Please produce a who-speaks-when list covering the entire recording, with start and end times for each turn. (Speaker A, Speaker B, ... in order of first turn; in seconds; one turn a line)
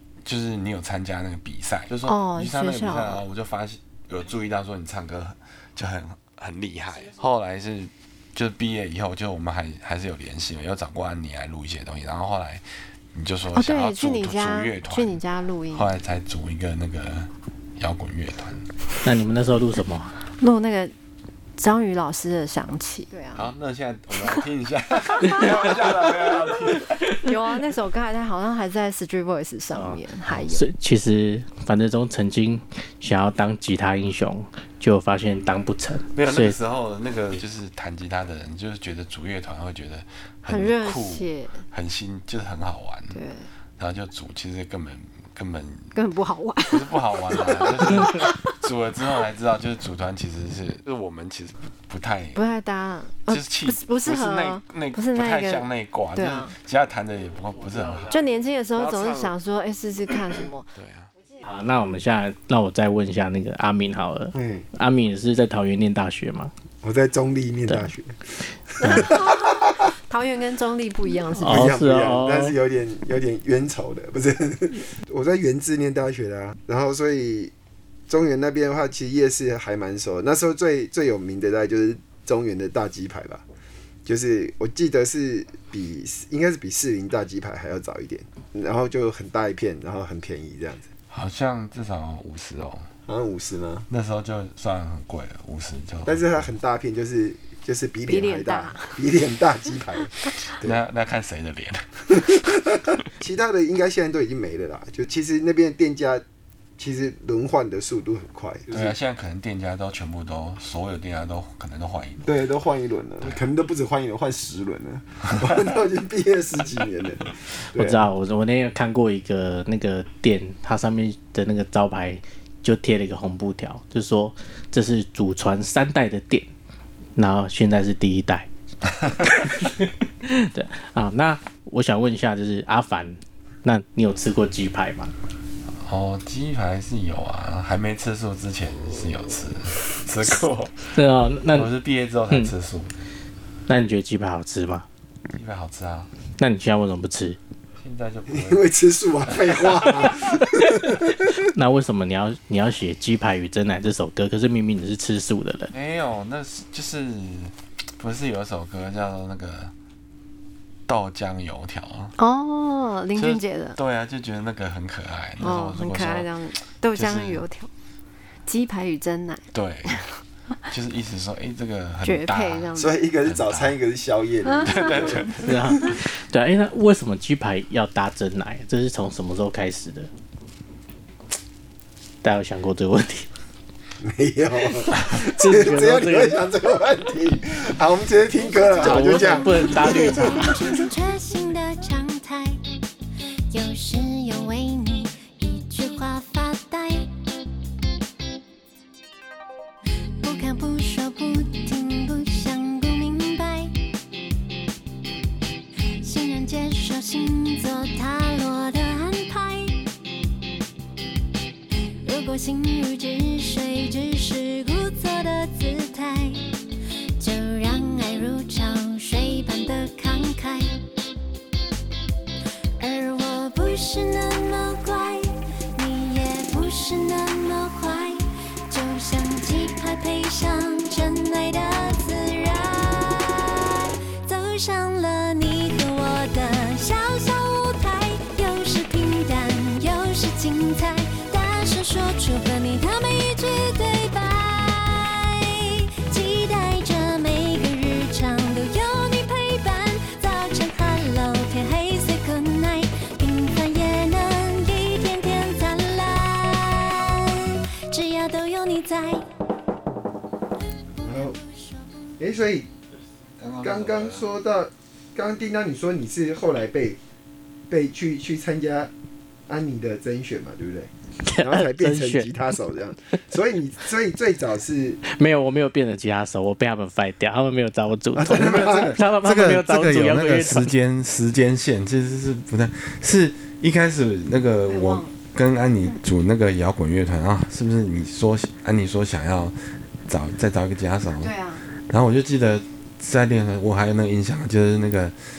Speaker A: 0.2-15.2
Speaker B: 2.0-3.2
Speaker B: 13.5-15.9
Speaker A: 15.7-18.7
Speaker C: 19.0-20.1
Speaker B: 20.4-20.9
Speaker B: 21.6-23.5
Speaker A: 23.3-26.9
Speaker B: 27.2-30.7
Speaker C: 29.7-36.6
Speaker A: 36.1-43.2
Speaker B: 40.5-41.6
Speaker B: 43.1-43.5
Speaker A: 43.8-45.9
Speaker B: 45.9-48.4
Speaker A: 46.7-52.4
Speaker B: 52.3-56.5
Speaker A: 53.3-58.2
Speaker C: 57.6-58.1
Speaker B: 58.1-60.7
Speaker A: 58.7-59.3
Speaker A: 60.8-61.1
Speaker C: 61.4-66.5
Speaker D: 64.3-64.6
Speaker D: 66.8-68.2
Speaker D: 68.8-69.8
Speaker B: 68.8-71.7
Speaker C: 71.4-72.5
Speaker D: 71.5-77.5
Speaker D: 78.1-83.4
Speaker D: 84.0-90.8
Speaker A: 91.1-92.8
Speaker D: 93.1-93.9
Speaker A: 93.9-96.4
Speaker D: 96.0-100.8
Speaker B: 98.1-99.0
Speaker A: 100.6-102.5
Speaker D: 102.2-106.2
Speaker D: 106.8-108.9
Speaker A: 108.7-112.4
Speaker D: 112.2-118.1
Speaker C: 117.7-126.5
Speaker C: 127.2-128.5
Speaker A: 128.8-129.3
Speaker C: 129.3-135.1
Speaker A: 135.7-141.0
Speaker C: 140.9-141.7
Speaker A: 141.5-142.9
Speaker C: 143.7-144.8
Speaker A: 145.3-146.1
Speaker C: 146.4-147.4
Speaker A: 147.8-148.6
Speaker D: 148.3-151.5
Speaker C: 150.3-155.7
Speaker A: 155.7-159.7
Speaker A: 160.9-162.1
Speaker B: 162.2-163.8
Speaker A: 163.2-166.3
Speaker B: 165.4-167.7
Speaker A: 166.9-167.4
Speaker B: 168.4-170.0
Speaker A: 169.5-170.0
Speaker A: 170.7-173.8
Speaker B: 172.0-173.0
Speaker D: 172.8-175.9
Speaker B: 174.4-175.3
Speaker A: 174.6-175.6
Speaker C: 175.4-180.1
Speaker C: 182.2-183.3
Speaker D: 184.0-190.8
Speaker C: 184.9-186.4
Speaker E: 188.6-192.6
Speaker C: 188.8-190.5
Speaker E: 193.5-197.1
Speaker E: 200.2-203.7
Speaker E: 206.0-209.9
Speaker E: 212.0-216.4
Speaker E: 217.2-220.8
Speaker E: 222.8-259.2
Speaker E: 261.0-262.1
Speaker D: 261.0-261.4
Speaker D: 262.2-262.7
Speaker A: 263.4-264.3
Speaker D: 263.6-267.0
Speaker D: 267.7-268.9
Speaker D: 269.5-275.0
Speaker C: 271.2-272.3
Speaker C: 275.1-280.7
Speaker D: 278.1-279.0
Speaker A: 278.3-289.5
Speaker B: 284.6-285.1
Speaker A: 290.1-291.3
Speaker B: 291.2-291.6
Speaker A: 291.9-295.1